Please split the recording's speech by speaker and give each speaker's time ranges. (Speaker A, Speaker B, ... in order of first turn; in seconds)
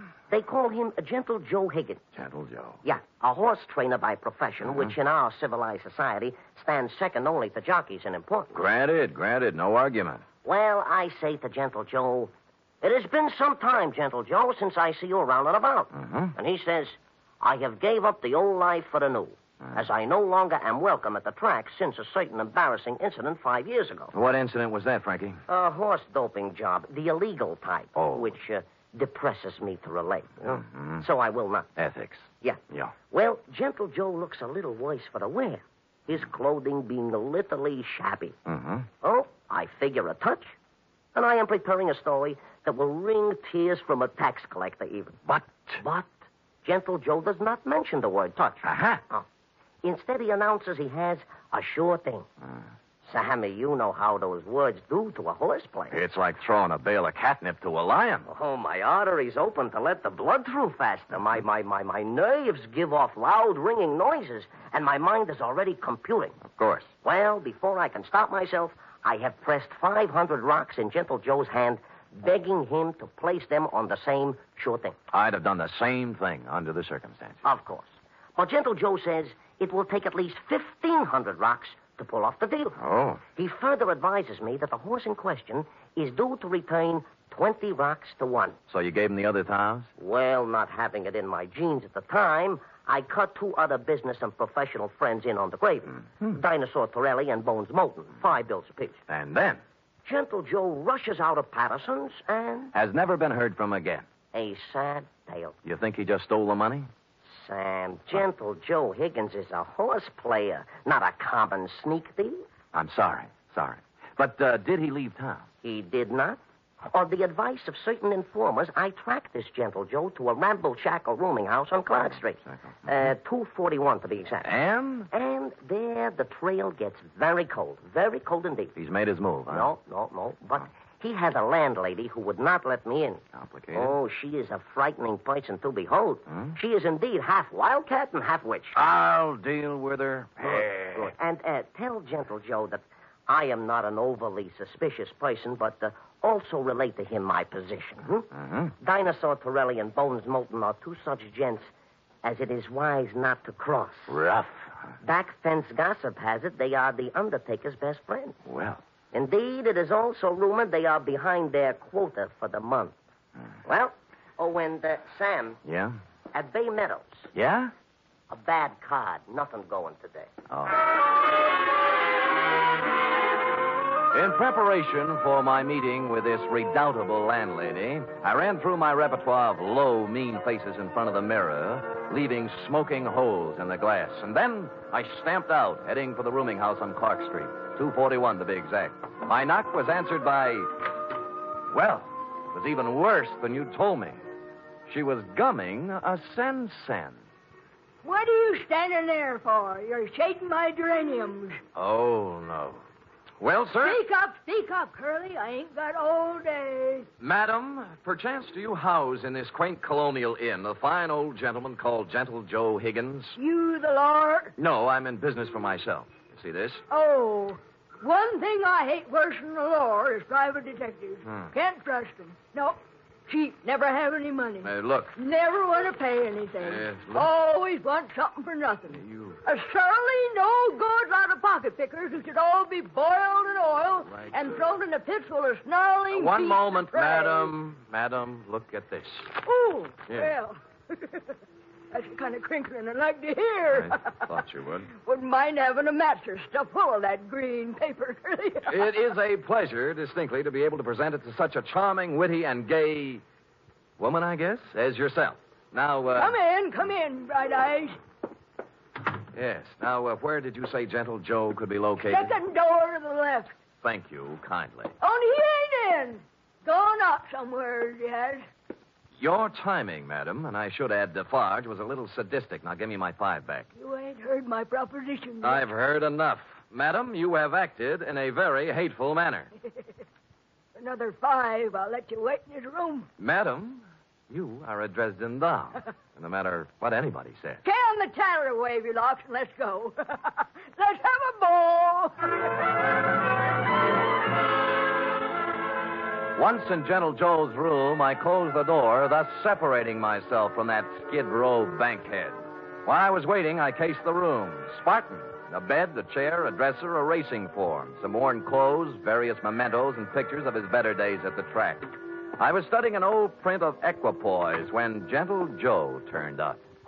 Speaker A: 0.3-2.0, 2.8-8.5, 10.4-24.1, 25.5-31.7, 33.1-38.4, 39.0-40.5, 41.1-45.2, 45.8-46.0, 46.6-49.2, 49.8-52.3, 53.1-56.0, 58.3-66.4, 67.0-75.0, 77.4-82.8, 83.3-88.6, 90.0-99.0, 100.0-102.7, 104.3-105.5, 107.3-112.4, 115.6-116.4, 116.9-124.5, 125.1-128.7, 129.5-133.2, 133.7-138.8, 140.6-148.3, 148.8-151.7, 152.2-154.1, 155.0-158.4, 159.1-162.9, 163.7-165.6, 166.3-167.3, 168.3-170.3
Speaker B: 2.1-2.8, 8.5-10.2, 15.9-16.3, 24.1-25.4, 27.9-28.3, 30.5-31.0, 31.8-32.9, 38.5-38.9, 45.2-45.8, 48.6-49.0, 55.9-58.3, 66.5-66.9, 75.1-77.4, 82.8-83.2, 88.7-89.9, 99.1-99.6, 102.7-104.0, 105.6-106.9, 112.7-115.5, 124.4-125.1, 128.8-129.7, 133.3-133.9, 138.7-141.1, 148.3-148.7, 154.1-154.6, 158.5-158.8, 165.6-165.9, 167.3-167.7, 170.5-170.8, 174.1-190.7, 191.7-194.2, 194.9-197.2, 201.7-202.8, 203.4-204.0, 207.2-213.4, 214.6-216.8, 221.2-221.5, 224.6-225.1, 226.6-227.3, 228.9-229.4, 234.1-234.4, 236.1-239.4, 243.7-244.9, 248.7-253.2, 254.0-256.4, 259.3-262.4, 263.8-264.9, 269.2-273.7, 275.4-279.5, 283.2-287.6, 296.4-316.6
Speaker C: 198.0-201.6, 203.7-207.1, 213.4-214.5, 216.9-237.5, 239.4-241.3, 241.9-244.2, 245.0-248.9, 256.1-258.0, 262.0-263.5, 265.0-268.4, 273.8-275.6, 280.8-283.1, 287.6-292.3